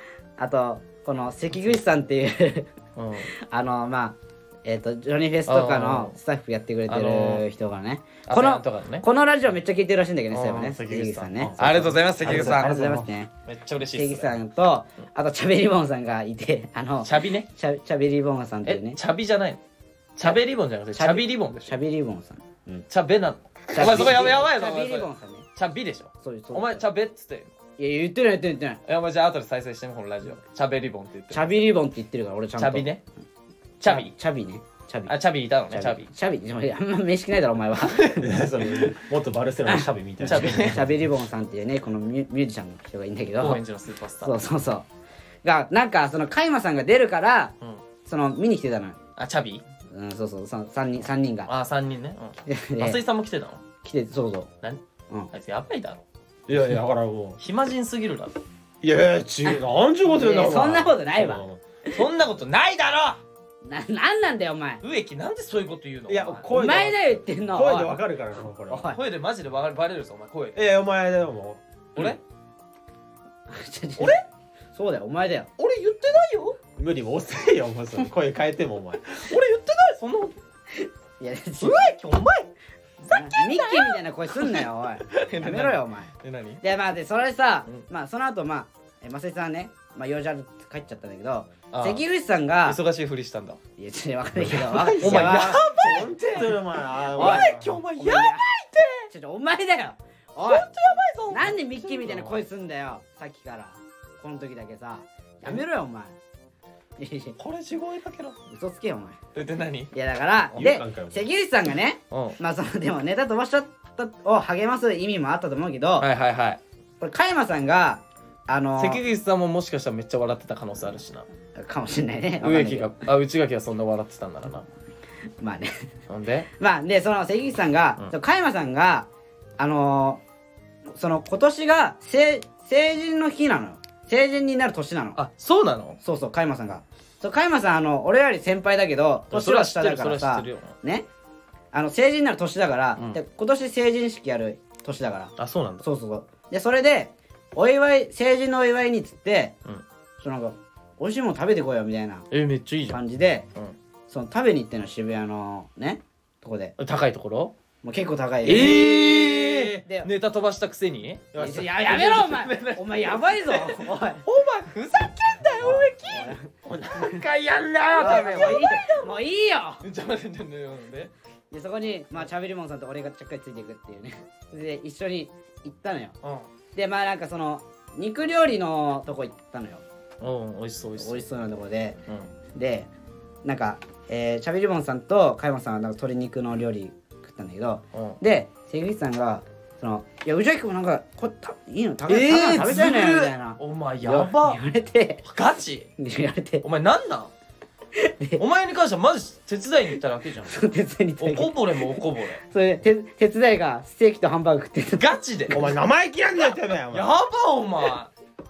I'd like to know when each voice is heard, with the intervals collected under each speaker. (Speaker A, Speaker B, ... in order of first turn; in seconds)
Speaker A: 0.4-2.7, 3.3-13.3, 13.9-19.0, 20.9-22.8, 23.7-25.4, 26.2-26.8, 27.8-28.8, 31.3-32.9, 33.9-35.1, 35.7-38.3, 39.7-43.6, 44.2-44.9, 45.4-47.5, 48.0-49.0, 49.9-51.5, 52.5-53.0, 53.8-54.5, 60.0-61.9, 63.6-64.8, 66.5-67.9, 68.7-69.0, 73.5-74.2, 74.7-75.5, 80.8-81.9, 83.1-86.1, 86.6-92.8, 93.8-95.6, 97.2-98.5, 99.1-100.7, 101.3-106.2, 107.0-107.3, 108.5-109.2, 109.9-116.1, 117.0-119.0, 121.6-122.9, 125.4-125.7, 126.6-130.2, 130.9-135.2, 136.0-141.1, 141.7-149.6, 150.2-152.3, 152.9-153.5, 154.1-156.7, 157.8-158.8, 161.4-164.2, 165.6-166.4, 168.0-169.8, 171.5-176.2, 176.7-179.8, 181.0-182.0, 182.5-182.9, 183.4-195.2, 196.0-196.6, 197.9-198.4, 200.5-201.7, 202.4-205.1
Speaker B: 3.0-3.3, 5.5-6.1, 6.9-7.4, 8.2-9.1, 10.3-14.4, 17.0-17.5, 18.6-19.6, 20.1-21.7, 22.9-27.6, 28.9-31.6, 32.6-33.0, 33.8-34.1, 35.0-36.1, 37.8-38.9, 40.3-40.8, 43.4-44.4, 49.2-49.6, 51.5-53.6, 54.6-56.0, 57.4-58.4, 61.9-63.2, 64.8-66.5, 68.8-70.6, 74.0-74.2, 75.6-76.6, 79.1-80.3, 81.6-82.5, 83.0-86.6, 91.7-92.0, 92.7-93.6, 94.7-96.6, 97.1-99.1, 100.4-102.4, 107.4-108.4, 109.3-109.9, 112.1-112.4, 116.0-116.6, 118.8-121.3, 122.4-124.7, 126.1-126.5, 135.2-136.0, 139.3-140.7, 145.4-145.8, 152.3-153.0, 156.8-157.5, 158.4-166.4, 167.0-169.1, 169.8-171.1, 176.2-176.5, 180.2-181.2, 192.1-194.6, 195.2-195.9, 196.6-197.3, 198.4-200.7, 201.2-202.4, 205.0-205.7, 206.9-208.1
Speaker C: 11.4-13.1, 38.2-41.0, 56.5-57.4, 58.8-61.6, 66.1-68.9, 70.5-71.6, 76.8-79.0, 94.3-97.8, 110.5-111.3, 158.4-159.8, 161.3-161.8, 166.6-168.7, 205.5-207.2